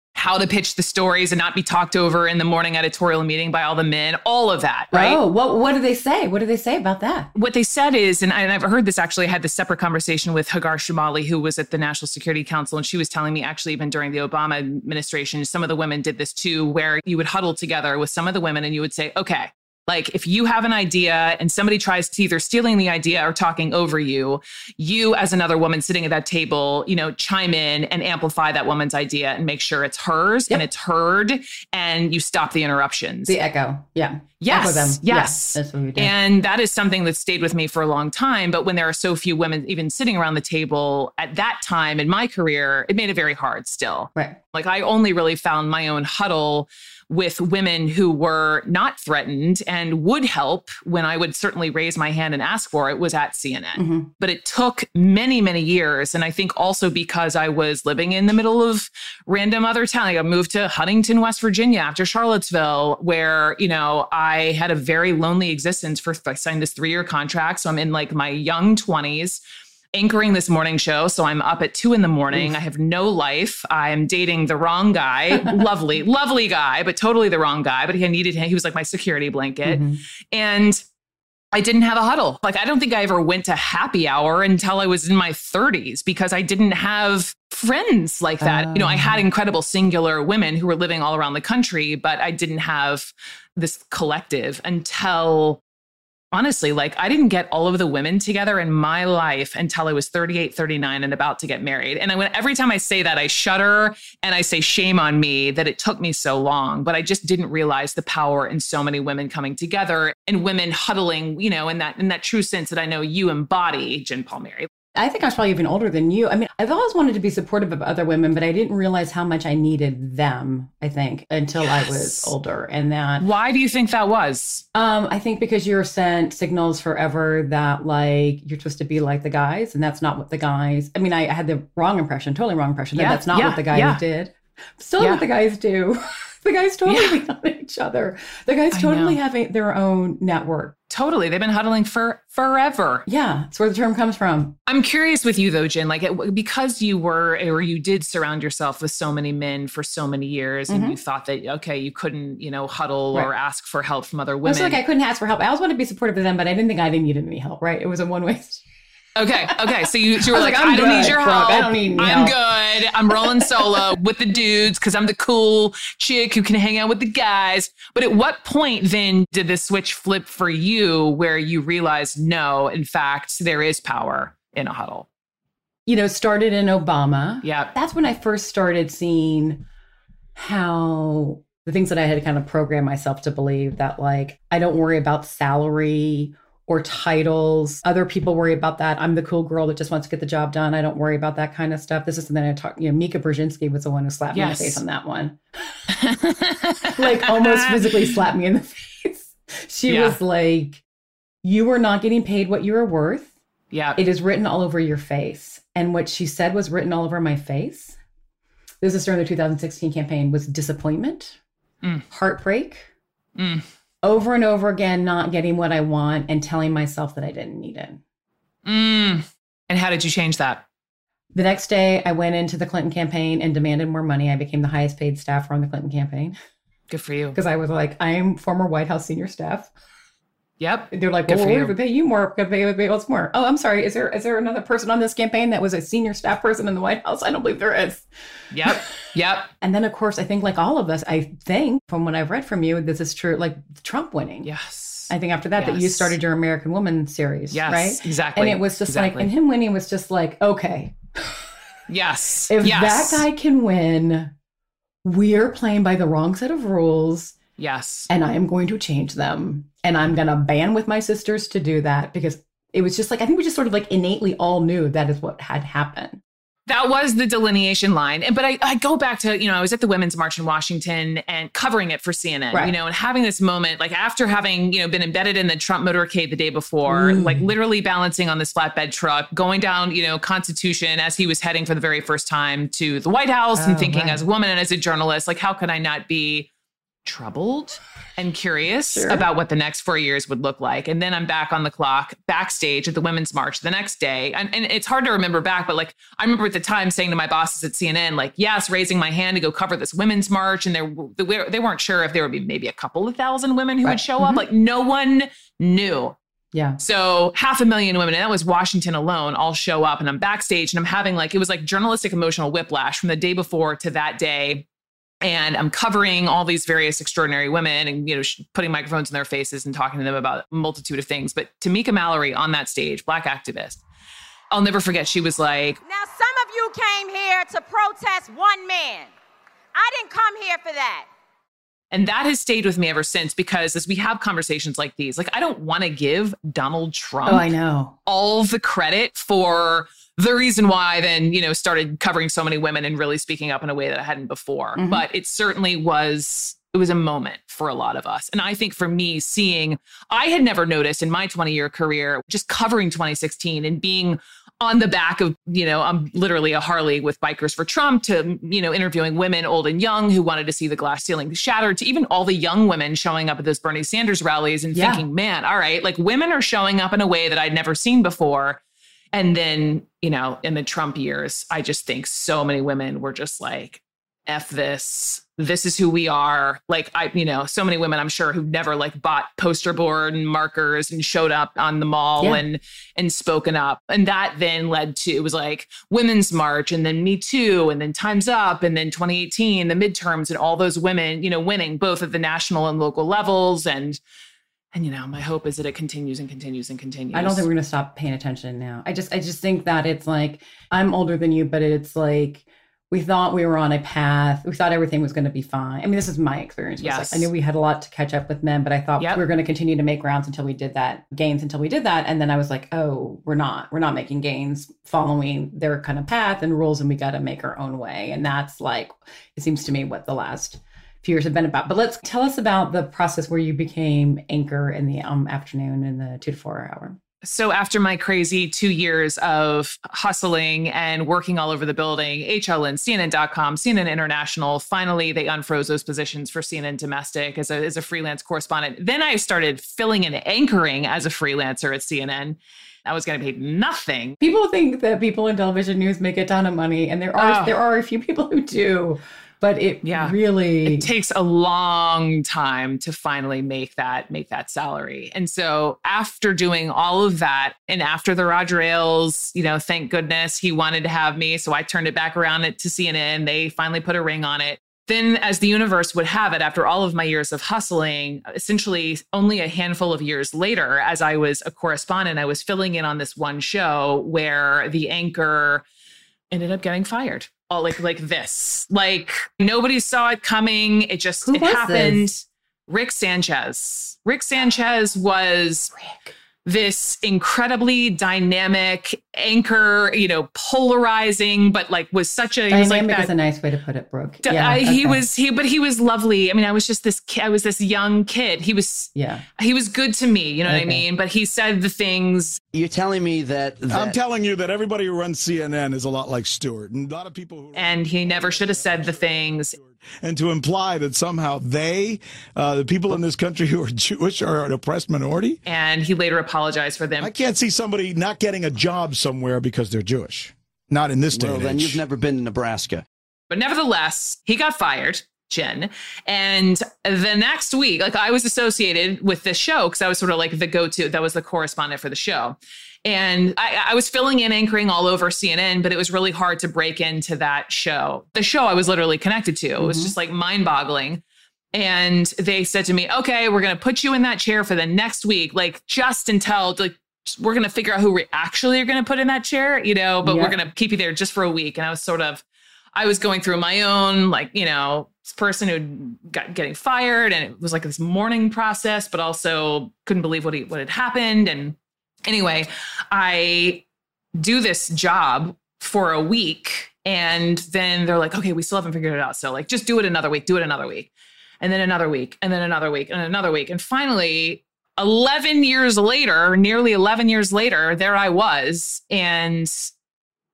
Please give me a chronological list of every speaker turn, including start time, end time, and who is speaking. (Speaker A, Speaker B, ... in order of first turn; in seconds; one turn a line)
Speaker A: 0.1-5.2
Speaker B: 4.9-7.3
Speaker A: 7.3-33.4
Speaker B: 33.2-36.1
Speaker A: 34.4-69.4
Speaker B: 53.7-54.1
Speaker A: 69.9-80.8
Speaker B: 75.3-75.6
Speaker B: 79.6-80.0
Speaker A: 81.5-95.6
Speaker B: 88.4-89.2
Speaker A: 96.3-114.7
Speaker B: 114.9-123.3
Speaker A: 121.6-122.3
Speaker A: 123.2-124.6
Speaker B: 124.7-140.7
Speaker A: 132.9-134.0
Speaker A: 135.0-135.2
Speaker A: 136.8-137.2
Speaker A: 138.7-139.2
Speaker A: 140.9-143.1
Speaker B: 143.1-144.6
Speaker A: 144.7-154.8
Speaker B: 150.7-151.0
Speaker B: 154.4-158.6
Speaker A: 159.2-175.1
Speaker B: 159.4-162.4
Speaker B: 163.1-163.9
Speaker B: 175.8-179.6
Speaker A: 177.4-177.7
Speaker B: 180.3-195.4
Speaker A: 194.3-194.8
Speaker A: 195.9-198.2
Speaker B: 196.9-200.8
Speaker A: 199.9-200.2
Speaker B: 201.4-203.3
Speaker A: 203.7-204.0
Speaker B: 203.9-207.9
Speaker B: 208.8-211.4
Speaker B: 212.1-212.9
Speaker A: 213.3-213.6
Speaker B: 214.0-218.0
Speaker A: 218.6-220.6
Speaker B: 221.3-226.3
Speaker A: 226.9-227.4
Speaker B: 227.3-229.7
Speaker A: 230.6-231.7
Speaker B: 230.9-238.1
Speaker A: 238.5-239.5
Speaker B: 239.6-244.5
Speaker A: 244.4-246.2
Speaker B: 245.1-251.4
Speaker A: 247.5-249.3
Speaker A: 251.9-253.2
Speaker B: 252.5-254.3
Speaker B: 255.0-257.4
Speaker A: 257.6-258.1
Speaker B: 258.1-266.2
Speaker A: 266.7-286.5
Speaker B: 276.8-277.5
Speaker B: 283.5-284.2
Speaker A: 287.0-306.1
Speaker B: 288.9-289.2
Speaker B: 303.8-304.4
Speaker B: 306.5-306.8
Speaker A: 306.8-314.6
Speaker A: 315.2-323.8
Speaker A: 324.5-325.8
Speaker C: 325.8-329.1
Speaker C: 329.7-331.1
Speaker A: 331.9-337.5
Speaker B: 337.2-337.9
Speaker A: 338.1-368.6
Speaker B: 344.8-345.0
Speaker B: 364.7-365.0
Speaker A: 369.1-394.0
Speaker A: 394.7-397.5
Speaker B: 397.1-427.0
Speaker A: 406.8-407.3
Speaker A: 409.0-409.2
Speaker A: 427.2-444.2
Speaker B: 444.2-450.9
Speaker A: 447.2-447.6
Speaker A: 449.8-475.6
Speaker A: 476.3-485.7
Speaker B: 481.2-482.1
Speaker B: 485.7-486.1
Speaker A: 486.4-493.1
Speaker B: 492.5-495.0
Speaker A: 494.2-502.4
Speaker B: 498.9-499.2
Speaker B: 500.4-500.8
Speaker D: 502.5-504.0
Speaker E: 503.7-515.4
Speaker A: 507.5-509.6
Speaker A: 515.4-517.2
Speaker E: 517.0-521.8
Speaker D: 521.1-522.8
Speaker A: 523.3-541.0
Speaker B: 539.6-539.9
Speaker A: 541.5-552.2
Speaker B: 550.0-550.4
Speaker A: 552.7-561.5
Speaker A: 562.1-563.6
Speaker A: 564.2-570.9
Speaker A: 571.4-579.7